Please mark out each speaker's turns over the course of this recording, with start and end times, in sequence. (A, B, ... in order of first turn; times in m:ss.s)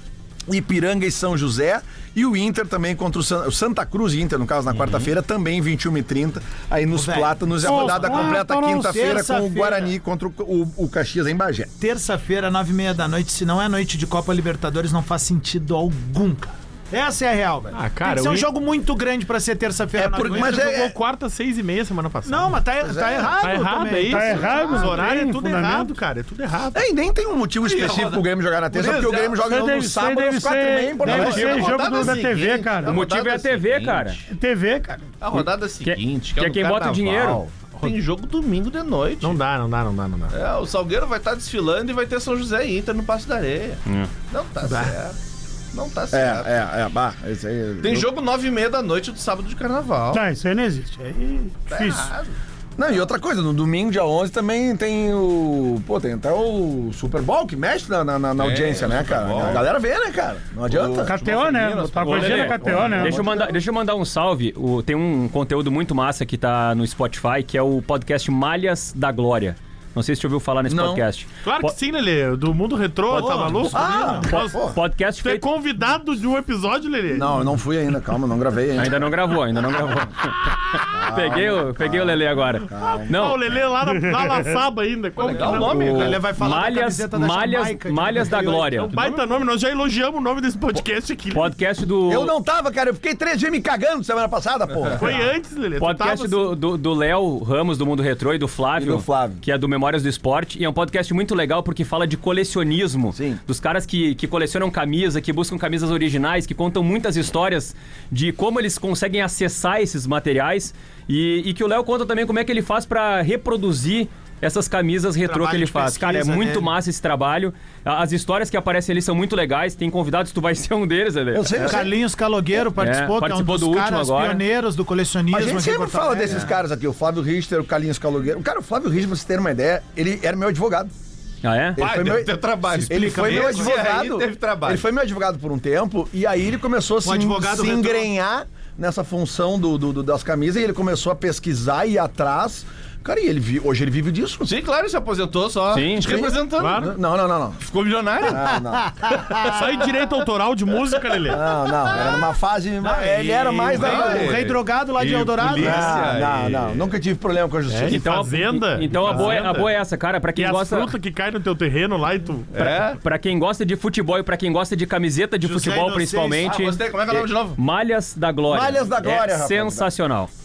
0:00.5-0:11.7 A
0:06.9-0:09.9 B
0:07.6-0:09.0 C
0:11.8-0:20.7 B
0:17.7-0:18.5 D
0:20.0-0:20.9 A
0:20.3-0:22.6 D
0:22.2-0:25.0 B
0:22.8-0:23.4 A
0:23.4-0:26.8 D
0:24.0-0:25.9 C
0:26.7-0:32.2 A
0:27.6-0:29.4 E
0:29.4-0:33.0 C
0:31.0-0:34.2 E
0:32.9-0:34.3 F
0:34.3-0:35.0 C
0:35.2-0:39.4 E
0:35.4-0:37.4 F
0:39.2-0:40.4 D
0:40.3-0:45.2 E
0:44.6-0:45.0 D
0:45.7-0:46.5 E
0:46.1-0:48.1 A
0:47.8-0:50.2 E
0:50.1-0:52.1 C
0:51.7-0:52.4 E
0:52.8-1:01.1 A
0:58.4-0:59.7 E
1:00.7-1:03.2 E
1:01.0-1:03.2 C
1:02.0-1:11.8 F
1:02.6-1:03.6 A
1:10.7-1:11.0 A
1:11.4-1:17.4 D
1:13.1-1:14.3 B
1:13.7-1:14.8 A
1:14.5-1:15.4 F
1:17.1-1:19.1 A
1:18.8-1:23.4 F
1:20.9-1:23.1 A
1:22.8-1:26.2 D
1:24.0-1:24.5 C
1:25.2-1:26.2 E
1:25.5-1:29.0 B
1:26.3-1:28.9 F
1:28.5-1:31.6 D
1:31.3-1:32.3 F
1:32.1-1:35.2 A
1:34.9-1:36.6 D
1:35.8-2:01.6 F
1:38.8-1:39.4 A
1:43.1-1:43.4 A
1:55.2-1:56.7 B
2:01.3-2:01.9 A
2:01.6-2:06.6 B
2:02.8-2:04.4 F
2:05.3-2:10.9 A
2:11.4-2:11.8 F
2:11.8-2:24.5 A
2:11.8-2:14.8 E
2:12.7-2:13.8 B
2:17.0-2:18.1 B
2:24.4-2:27.0 E
2:25.7-2:26.1 F
2:26.0-2:27.6 A
2:26.6-2:27.0 D
2:27.6-2:28.4 E
2:28.3-2:28.9 A
2:28.5-2:29.6 B
2:29.5-2:31.4 D
2:31.3-2:34.4 A
2:32.8-2:36.0 B
2:33.3-2:33.6 D
2:33.7-2:36.9 E
2:35.6-2:38.0 A
2:37.7-2:39.8 D
2:37.9-2:41.0 F
2:40.4-2:42.8 D
2:42.5-2:43.0 E
2:42.9-2:50.3 F
2:45.4-2:46.6 B
2:46.4-2:47.6 E
2:48.5-2:49.9 A